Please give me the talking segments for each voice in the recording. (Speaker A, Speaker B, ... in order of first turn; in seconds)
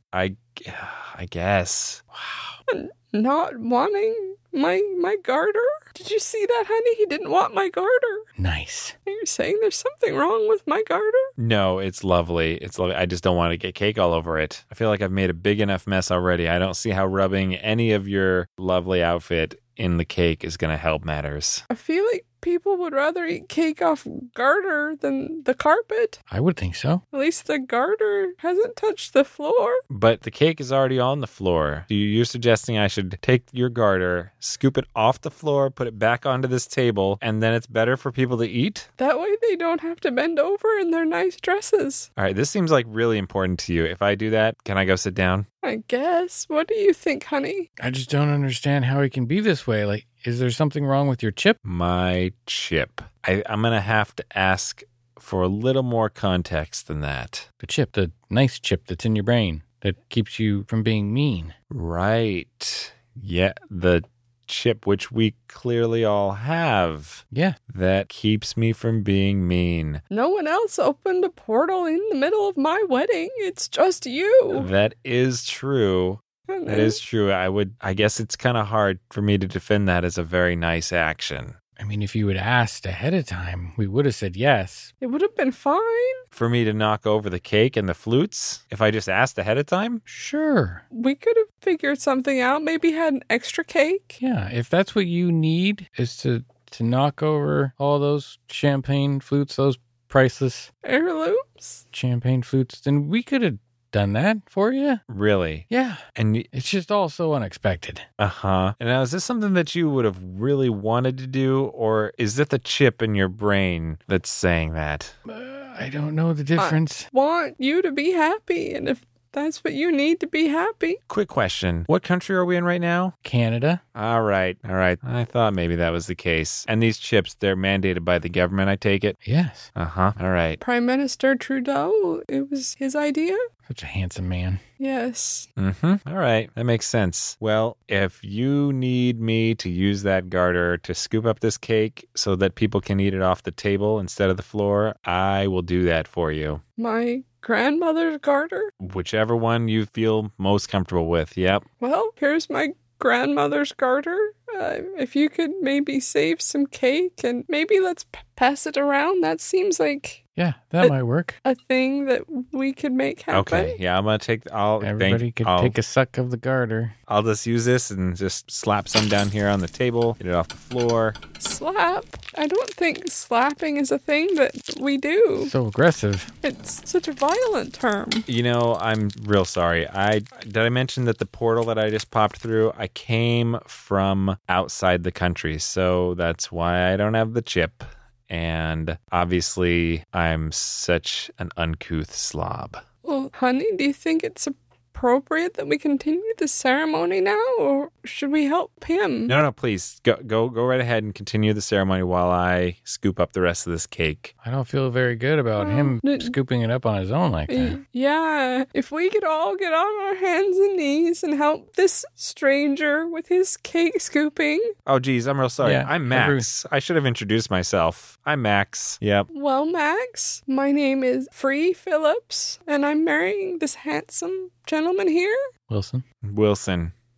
Speaker A: 0.1-2.4, 11.4-21.6, 29.9-38.9, 42.2-45.5, 51.6-57.5, 61.7-70.0, 74.5-81.6, 86.3-90.0, 105.1-106.5, 108.2-115.2, 121.1-123.2, 124.0-129.2, 129.8-130.6, 135.6-146.6, 148.8-151.6, 163.3-165.8, 167.1-171.2, 178.3-192.8, 199.3-204.3, 214.9-219.3, 226.2-226.9
Speaker B: 2.7-8.3, 9.1-11.3, 21.7-26.2, 27.1-29.8, 39.0-42.1, 45.6-47.7, 70.1-74.7, 76.5-77.0, 85.0-86.2, 90.9-94.2, 100.8-101.8, 116.6-121.0, 130.6-133.4, 134.8-135.5, 146.8-148.7, 151.8-160.2, 161.4-163.8, 171.4-175.5, 176.4-178.3, 193.1-199.3, 205.6-206.3, 207.5-214.7, 219.3-225.4
Speaker C: 8.4-8.9, 26.3-27.0, 47.8-51.6, 57.6-61.5, 67.3-67.6, 81.8-84.9, 90.1-90.8, 94.2-100.7, 101.9-105.0, 105.7-106.0, 106.5-108.0, 115.3-117.1, 123.2-123.8, 129.2-129.7, 133.7-134.6, 160.4-161.4, 164.8-166.9, 175.4-176.3, 204.4-207.8, 215.6-216.5, 225.7-226.0